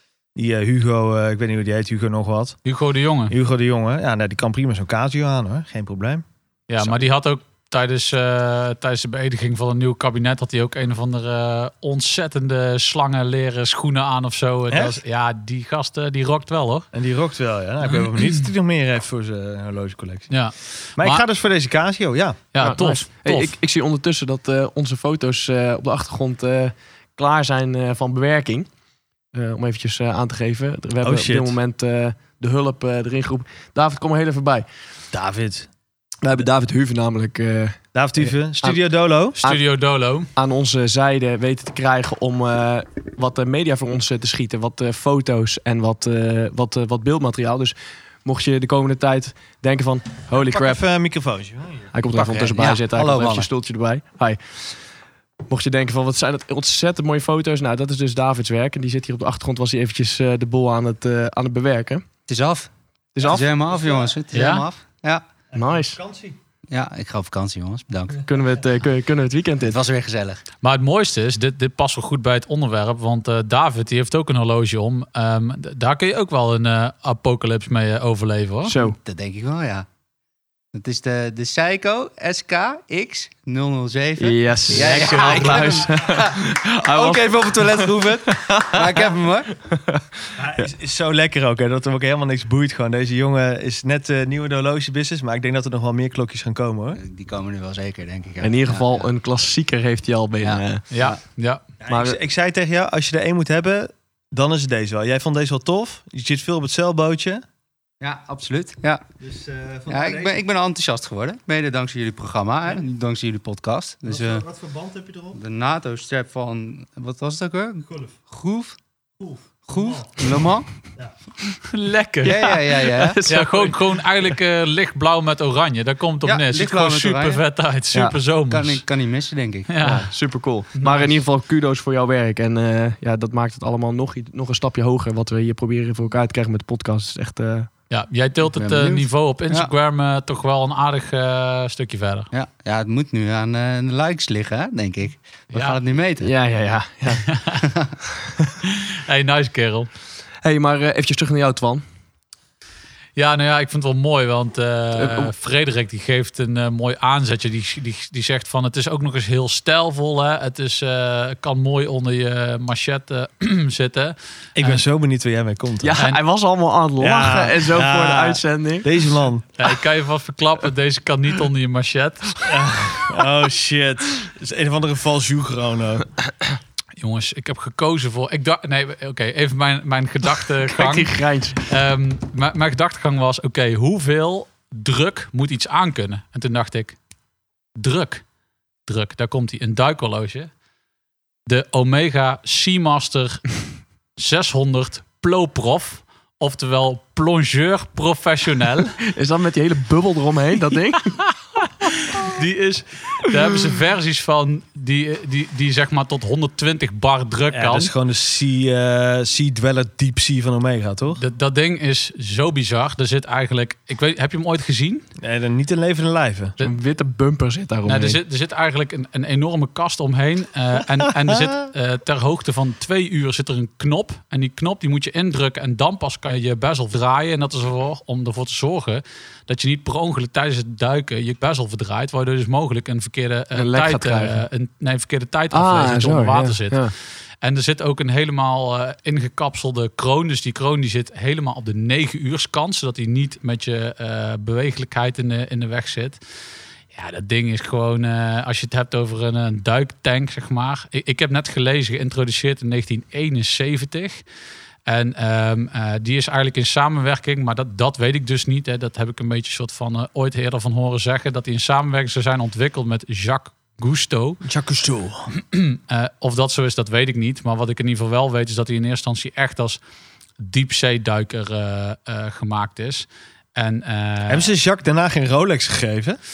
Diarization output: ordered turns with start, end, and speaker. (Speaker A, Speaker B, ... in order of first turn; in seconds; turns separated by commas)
Speaker A: 0.3-2.6, Speaker B: 2.6-3.4, Speaker A: 3.3-6.2, Speaker B: 6.7-16.9, Speaker A: 14.7-15.0, Speaker A: 16.9-20.3, Speaker B: 20.3-21.2, Speaker A: 21.0-22.5, Speaker B: 22.5-23.5, Speaker C: 22.6-28.7, Speaker C: 29.3-34.7, Speaker A: 31.0-31.6, Speaker A: 35.1-35.7, Speaker C: 36.2-38.8, Speaker A: 37.9-39.4, Speaker B: 39.4-40.3, Speaker C: 40.4-50.8, Speaker A: 50.3-52.0, Speaker C: 51.9-54.8, Speaker D: 52.1-53.5, Speaker A: 52.9-53.3, Speaker C: 55.5-62.1, Speaker D: 62.3-62.7, Speaker C: 63.1-63.5, Speaker A: 63.2-64.1, Speaker D: 63.2-65.2, Speaker B: 64.3-64.7, Speaker A: 65.5-66.4, Speaker C: 65.5-66.0, Speaker D: 66.7-68.3, Speaker C: 68.3-69.8, Speaker D: 69.6-70.4, Speaker B: 70.6-78.8, Speaker C: 78.7-79.0, Speaker D: 78.8-79.9, Speaker D: 80.7-87.8, Speaker C: 84.2-87.6, Speaker B: 84.7-85.7, Speaker A: 86.9-88.4, Speaker C: 88.4-88.8, Speaker D: 88.5-89.5, Speaker C: 89.7-90.7, Speaker A: 90.4-97.0, Speaker D: 97.0-99.1, Speaker C: 98.4-100.8, Speaker D: 100.4-101.2, Speaker B: 100.9-101.6, Speaker A: 101.8-107.4, Speaker C: 101.9-102.2, Speaker D: 108.0-109.0, Speaker A: 109.2-110.4, Speaker D: 109.9-114.5, Speaker A: 114.1-115.4, Speaker D: 115.3-118.8, Speaker A: 119.2-120.3, Speaker D: 119.7-120.7, Speaker B: 121.7-122.6, Speaker D: 122.2-123.2, Speaker C: 122.2-123.8, Speaker B: 123.3-128.8, Speaker D: 126.5-127.4, Speaker D: 128.5-129.7, Speaker B: 129.7-130.1, Speaker C: 129.8-137.7, Speaker B: 130.7-131.2, Speaker B: 137.9-142.3, Speaker D: 138.5-139.7, Speaker D: 142.3-146.3, Speaker B: 145.5-145.8, Speaker C: 146.2-147.3, Speaker B: 147.2-147.7, Speaker B: 148.6-149.9, Speaker C: 150.4-151.8, Speaker B: 153.2-164.8, Speaker C: 155.0-155.3, Speaker A: 164.6-166.0, Speaker C: 165.8-168.9, Speaker A: 167.0-169.5, Speaker B: 169.6-172.4, Speaker A: 172.4-176.1, Speaker B: 177.0-187.0, Speaker C: 180.7-181.6, Speaker B: 187.8-188.2, Speaker B: 188.9-190.5, Speaker B: 191.5-193.5, Speaker B: 194.2-199.0, Speaker C: 199.1-201.3, Speaker B: 201.8-207.9, Speaker A: 207.5-211.2, Speaker B: 211.1-215.1, Speaker A: 215.2-216.6, Speaker C: 216.6-218.2, Speaker B: 217.9-236.9, Speaker A: 221.2-221.5, Speaker C: 233.6-234.4, Speaker C: 235.5-236.9, Speaker B: 237.4-246.2, Speaker B: 246.9-254.2, Speaker B: 254.9-264.4, Speaker A: 264.4-265.3, Speaker B: 265.3-269.8, Speaker B: 270.4-274.5, Speaker A: 274.3-276.2